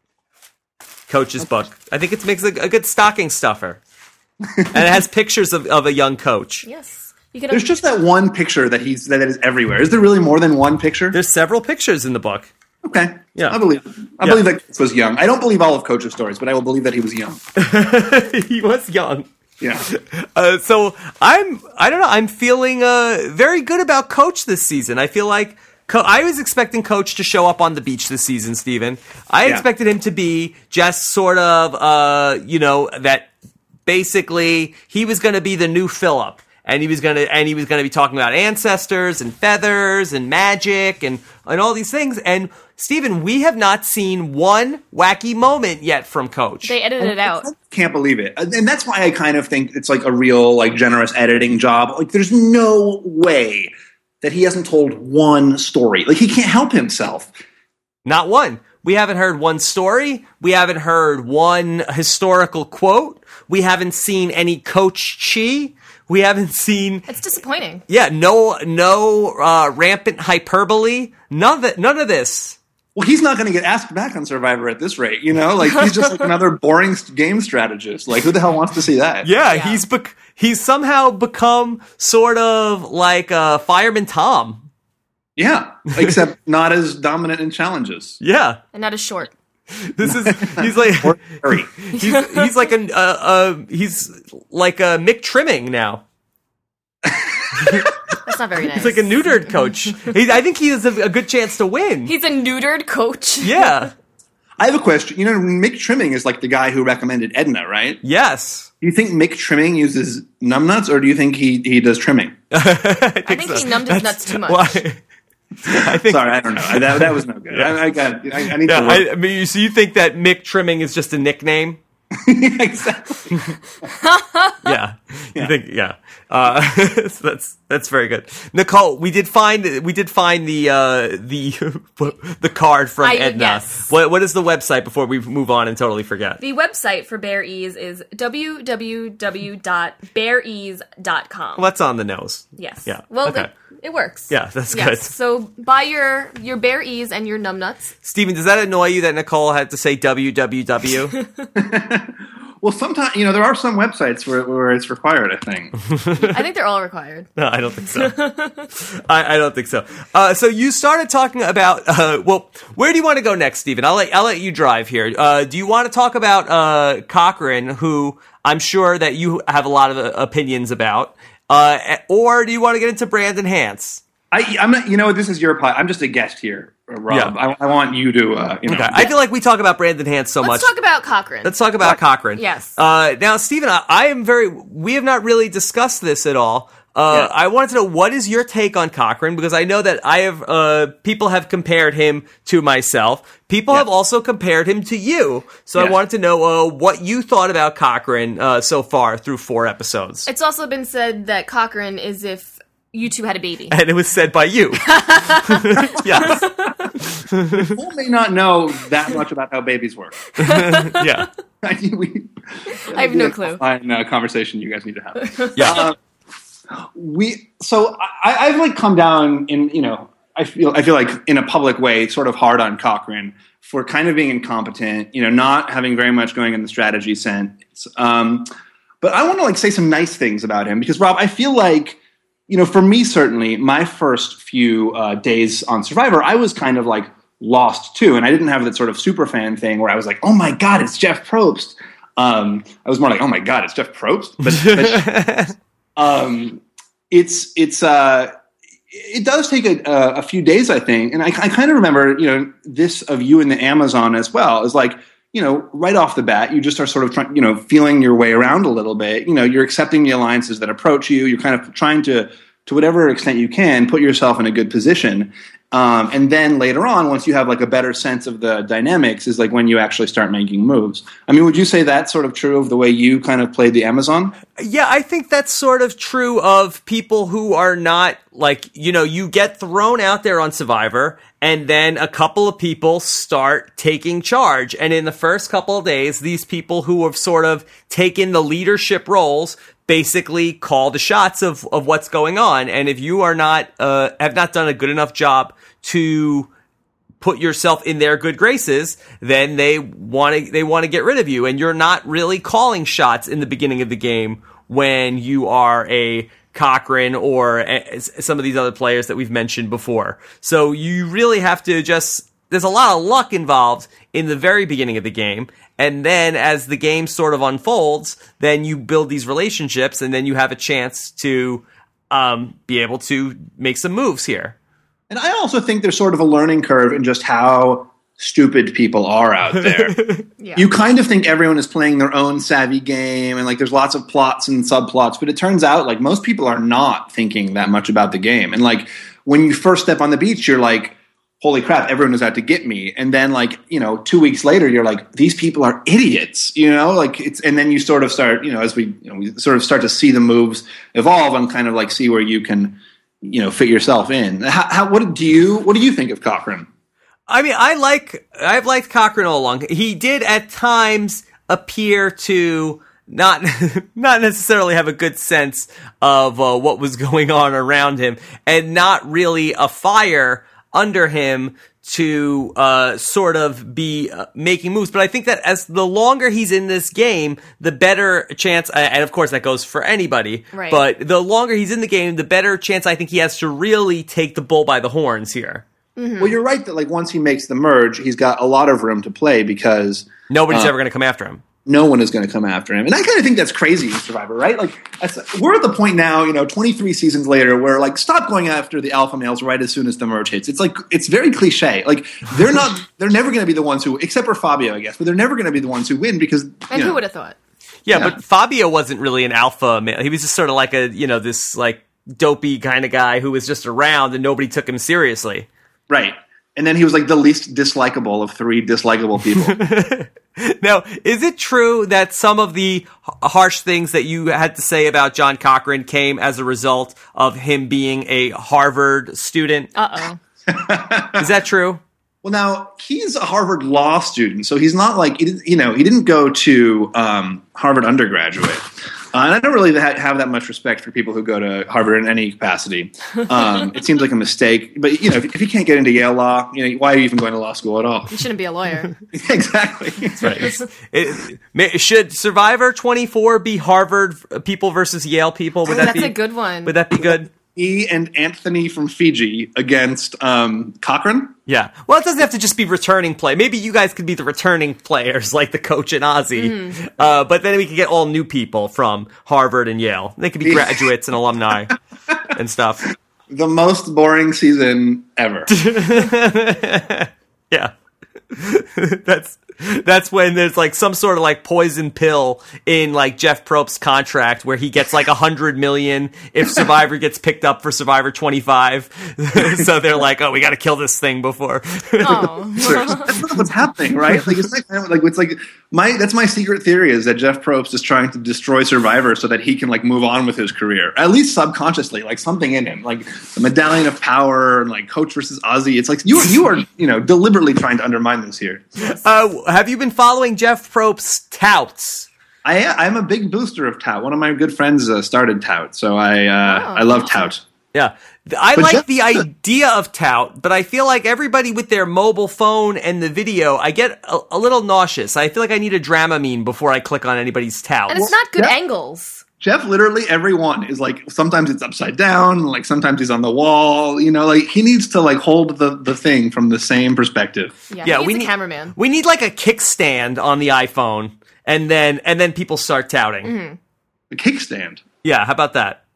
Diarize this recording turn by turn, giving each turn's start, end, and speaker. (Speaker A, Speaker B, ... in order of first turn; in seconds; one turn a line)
Speaker A: 1.1-3.8
Speaker A: 4.7-6.7
Speaker B: 6.6-7.8
Speaker C: 7.5-11.2
Speaker A: 11.1-12.5
Speaker C: 12.8-17.4
Speaker A: 17.6-19.3
Speaker C: 19.6-19.9
Speaker A: 19.8-33.3
Speaker A: 33.9-46.7
Speaker B: 46.6-47.5
Speaker C: 47.0-53.7
Speaker C: 54.2-57.3
Speaker A: 58.0-67.1
Speaker B: 67.1-67.8
Speaker A: 67.9-72.6
Speaker C: 72.9-79.3
Speaker A: 79.2-84.6
Speaker B: 79.5-79.8
Speaker C: 85.4-88.2
Speaker A: 88.2-88.6
Speaker B: 88.7-89.3
Speaker A: 89.7-96.0
Speaker C: 90.0-91.7
Speaker B: 91.9-92.5
Speaker A: 97.6-97.9
Speaker B: 98.2-99.5
Speaker A: 98.7-102.1
Speaker B: 102.0-103.9
Speaker A: 103.4-103.9
Speaker C: 104.6-108.0
Speaker A: 108.0-108.7
Speaker C: 108.8-112.3
Speaker A: 112.5-115.0
Speaker B: 113.2-114.8
Speaker C: 115.6-119.0
Speaker A: 115.7-117.8
Speaker A: 118.5-121.8
Speaker C: 122.1-123.4
Speaker B: 123.8-124.8
Speaker A: 124.6-136.4
Speaker B: 133.0-133.8
Speaker B: 136.4-141.7
Speaker A: 141.6-143.5
Speaker B: 142.6-147.9
Speaker A: 144.3-145.1
Speaker A: 148.0-151.2
Speaker C: 151.5-155.8
Speaker A: 155.9-156.4
Speaker B: 156.3-157.3
Speaker A: 157.4-158.2
Speaker B: 157.9-158.6
Speaker A: 158.7-174.0
Speaker C: 174.3-179.1
Speaker A: 178.7-180.7
Speaker B: 180.4-181.5
Speaker A: 181.4-200.3
Speaker B: 182.3-182.7
Speaker B: 200.2-203.8
Speaker A: 203.7-206.6
Speaker B: 204.9-206.9
Speaker A: 207.3-207.8
Speaker C: 207.6-210.3
Speaker A: 210.4-211.3
Speaker B: 210.4-211.0
Speaker C: 211.6-215.9
Speaker B: 212.7-213.6
Speaker A: 215.5-215.9
Speaker C: 216.7-228.5
Speaker C: 229.0-245.1
Speaker A: 244.4-245.5
Speaker C: 246.0-248.3
Speaker C: 248.9-274.4
Speaker A: 274.6-296.5
Speaker A: 297.2-324.5
Speaker C: 325.1-329.9
Speaker A: 329.6-330.2
Speaker B: 330.4-330.7
Speaker C: 330.6-356.7
Speaker A: 357.3-385.6
Speaker B: 380.5-380.8
Speaker B: 386.0-386.3
Speaker C: 386.2-390.7
Speaker A: 390.3-391.4
Speaker C: 391.6-407.0
Speaker B: 406.7-407.4
Speaker A: 407.9-415.5
Speaker C: 415.9-419.6
Speaker A: 419.4-429.7
Speaker B: 429.7-430.2
Speaker C: 430.5-431.3
Speaker A: 431.1-431.8
Speaker C: 432.2-448.2
Speaker B: 448.1-448.9
Speaker C: 449.1-450.5
Speaker A: 450.2-457.3
Speaker B: 455.6-456.7
Speaker C: 457.5-461.3
Speaker A: 461.5-471.8
Speaker B: 466.4-466.8
Speaker C: 470.4-470.9
Speaker A: 472.3-472.9
Speaker C: 473.3-475.5
Speaker A: 475.5-477.7
Speaker A: 478.3-492.8
Speaker B: 492.0-493.2
Speaker C: 492.6-508.9
Speaker A: 508.8-512.1
Speaker C: 512.4-517.4
Speaker B: 516.5-517.3
Speaker A: 517.7-528.1
Speaker C: 518.5-519.2
Speaker B: 527.9-529.2
Speaker C: 528.0-528.5
Speaker C: 529.4-537.5
Speaker B: 537.7-538.7
Speaker A: 537.8-543.3
Speaker B: 543.2-543.6
Speaker C: 544.1-544.8
Speaker A: 545.0-545.8